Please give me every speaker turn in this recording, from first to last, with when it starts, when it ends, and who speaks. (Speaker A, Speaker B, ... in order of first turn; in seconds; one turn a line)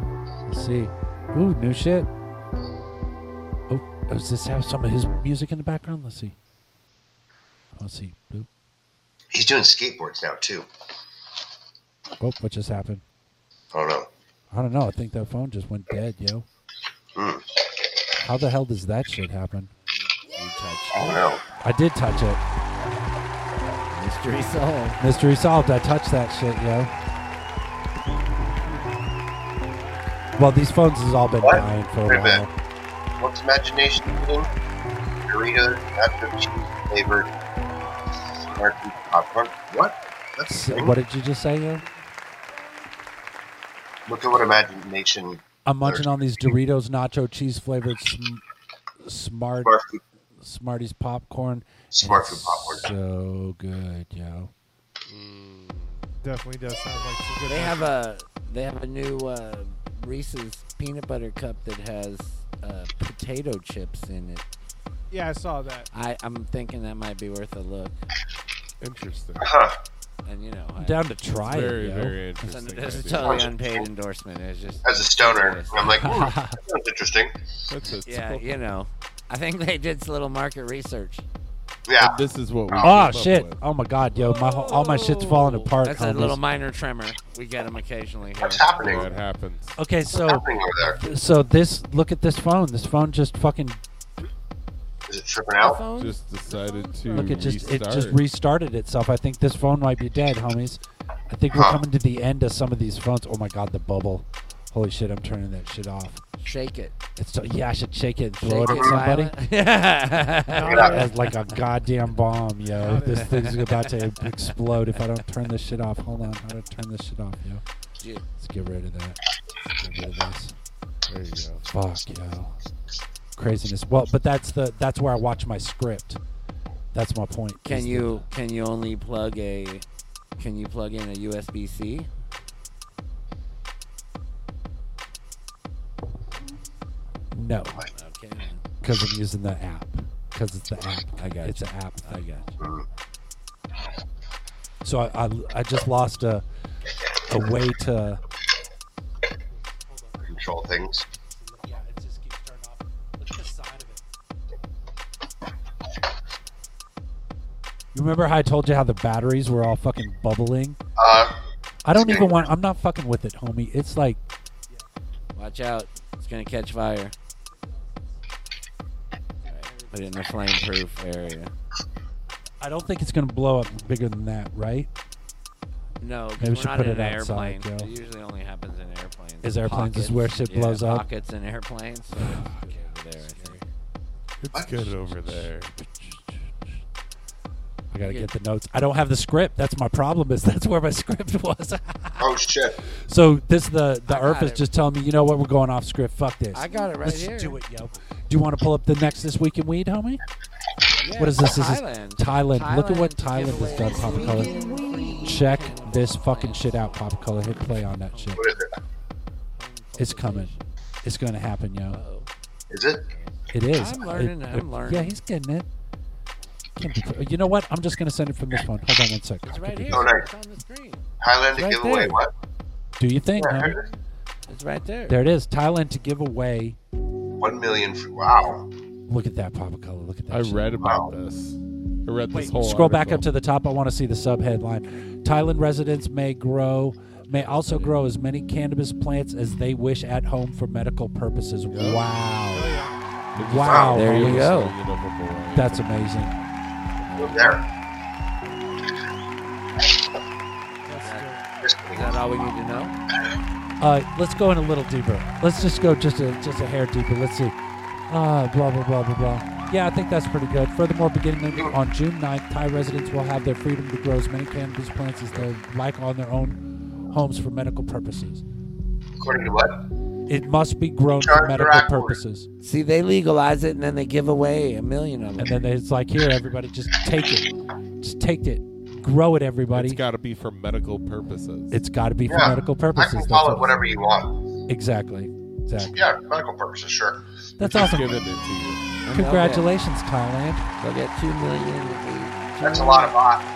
Speaker A: 0.5-2.1
Speaker A: 3.7-6.3
Speaker A: 7.8-8.5
Speaker B: 9.3-10.7
Speaker A: 12.2-13.0
Speaker B: 13.7-14.1
Speaker A: 14.5-16.5
Speaker B: 17.2-17.4
Speaker A: 18.2-19.7
Speaker C: 20.3-21.2
Speaker B: 20.9-21.4
Speaker A: 21.6-22.4
Speaker C: 23.9-25.0
Speaker A: 25.0-26.9
Speaker A: 30.4-32.5
Speaker B: 31.4-32.5
Speaker B: 33.2-34.5
Speaker B: 35.3-37.3
Speaker B: 38.4-41.0
Speaker A: 40.5-41.8
Speaker B: 44.1-46.1
Speaker A: 45.7-48.4
Speaker A: 49.0-49.7
Speaker B: 49.6-50.0
Speaker A: 50.4-54.5
Speaker B: 51.9-52.9
Speaker D: 55.1-56.1
Speaker E: 56.2-57.9
Speaker C: 57.5-64.4
Speaker E: 65.1-65.9
Speaker C: 65.9-68.0
Speaker D: 68.8-69.5
Speaker B: 69.4-69.8
Speaker C: 70.2-71.1
Speaker A: 70.8-72.2
Speaker D: 71.4-73.5
Speaker C: 72.4-76.1
Speaker B: 73.2-73.9
Speaker B: 74.8-77.3
Speaker A: 76.0-76.6
Speaker D: 77.7-78.5
Speaker C: 78.0-81.2
Speaker B: 81.9-83.0
Speaker D: 82.0-83.6
Speaker A: 82.8-86.4
Speaker D: 84.2-85.7
Speaker C: 85.8-89.0
Speaker B: 88.4-89.1
Speaker D: 88.8-89.8
Speaker A: 89.8-93.8
Speaker B: 90.1-91.0
Speaker B: 95.1-95.8
Speaker C: 95.6-96.2
Speaker D: 95.9-98.2
Speaker E: 96.5-97.4
Speaker A: 97.1-106.2
Speaker B: 101.5-101.8
Speaker C: 106.4-107.0
Speaker A: 107.2-109.3
Speaker C: 108.4-111.4
Speaker B: 108.7-109.0
Speaker E: 110.5-111.1
Speaker B: 110.6-111.1
Speaker A: 110.8-117.6
Speaker E: 112.8-113.3
Speaker C: 113.1-114.0
Speaker C: 118.0-118.2
Speaker A: 118.4-119.2
Speaker A: 119.8-120.5
Speaker D: 121.1-121.7
Speaker A: 121.7-122.5
Speaker A: 123.4-126.2
Speaker A: 126.9-128.2
Speaker C: 127.7-129.8
Speaker C: 130.4-132.1
Speaker A: 137.3-137.8
Speaker C: 137.9-138.6
Speaker A: 138.8-142.3
Speaker C: 141.2-142.6
Speaker B: 142.6-142.8
Speaker A: 144.8-146.4
Speaker A: 147.3-148.2
Speaker B: 150.2-151.1
Speaker A: 151.6-152.4
Speaker A: 157.9-160.8
Speaker B: 161.0-161.4
Speaker A: 161.8-164.2
Speaker B: 161.9-162.5
Speaker C: 165.3-167.2
Speaker C: 169.5-171.5
Speaker A: 172.6-174.9
Speaker C: 176.0-183.7
Speaker A: 176.4-177.9
Speaker A: 179.4-181.1
Speaker D: 182.4-183.6
Speaker D: 184.4-185.7
Speaker A: 184.5-186.5
Speaker A: 187.9-192.2
Speaker C: 188.0-188.3
Speaker B: 192.2-192.8
Speaker A: 193.1-200.2
Speaker C: 194.1-194.7
Speaker C: 196.5-197.6
Speaker C: 201.0-207.3
Speaker A: 201.2-204.6
Speaker A: 205.2-208.4
Speaker C: 208.0-208.5
Speaker B: 208.4-208.7
Speaker C: 209.6-210.7
Speaker A: 210.0-210.5
Speaker A: 211.0-212.0
Speaker C: 211.9-212.3
Speaker B: 212.7-213.1
Speaker C: 213.1-215.2
Speaker A: 213.5-215.7
Speaker A: 216.8-220.1
Speaker C: 219.5-222.1
Speaker B: 219.9-220.3
Speaker B: 221.2-222.3
Speaker A: 223.0-223.8
Speaker B: 223.4-223.8
Speaker C: 224.5-225.2
Speaker A: 225.1-226.8
Speaker B: 227.4-228.6
Speaker A: 229.1-230.7
Speaker D: 230.3-233.3
Speaker B: 230.8-231.1
Speaker A: 232.3-242.7
Speaker D: 237.3-237.9
Speaker D: 241.7-242.0
Speaker E: 242.5-243.0
Speaker D: 243.4-246.2
Speaker A: 243.4-244.5
Speaker B: 243.7-243.9
Speaker C: 243.9-244.8
Speaker A: 245.5-246.3
Speaker D: 247.1-247.4
Speaker B: 247.2-247.6
Speaker E: 250.9-251.4
Speaker C: 251.0-251.3
Speaker B: 251.6-252.2
Speaker C: 251.9-253.0
Speaker A: 253.8-257.6
Speaker A: 258.1-268.4
Speaker B: 269.2-269.8
Speaker A: 270.3-272.5
Speaker B: 271.1-272.2
Speaker C: 272.6-275.6
Speaker A: 275.4-277.5
Speaker A: 278.0-280.0
Speaker D: 279.7-281.8
Speaker A: 281.7-283.8
Speaker B: 282.3-284.4
Speaker A: 284.7-286.1
Speaker B: 285.9-287.2
Speaker A: 287.6-288.3
Speaker D: 287.6-288.9
Speaker C: 289.1-289.7
Speaker A: 289.1-290.7
Speaker C: 290.8-293.1
Speaker B: 292.6-293.4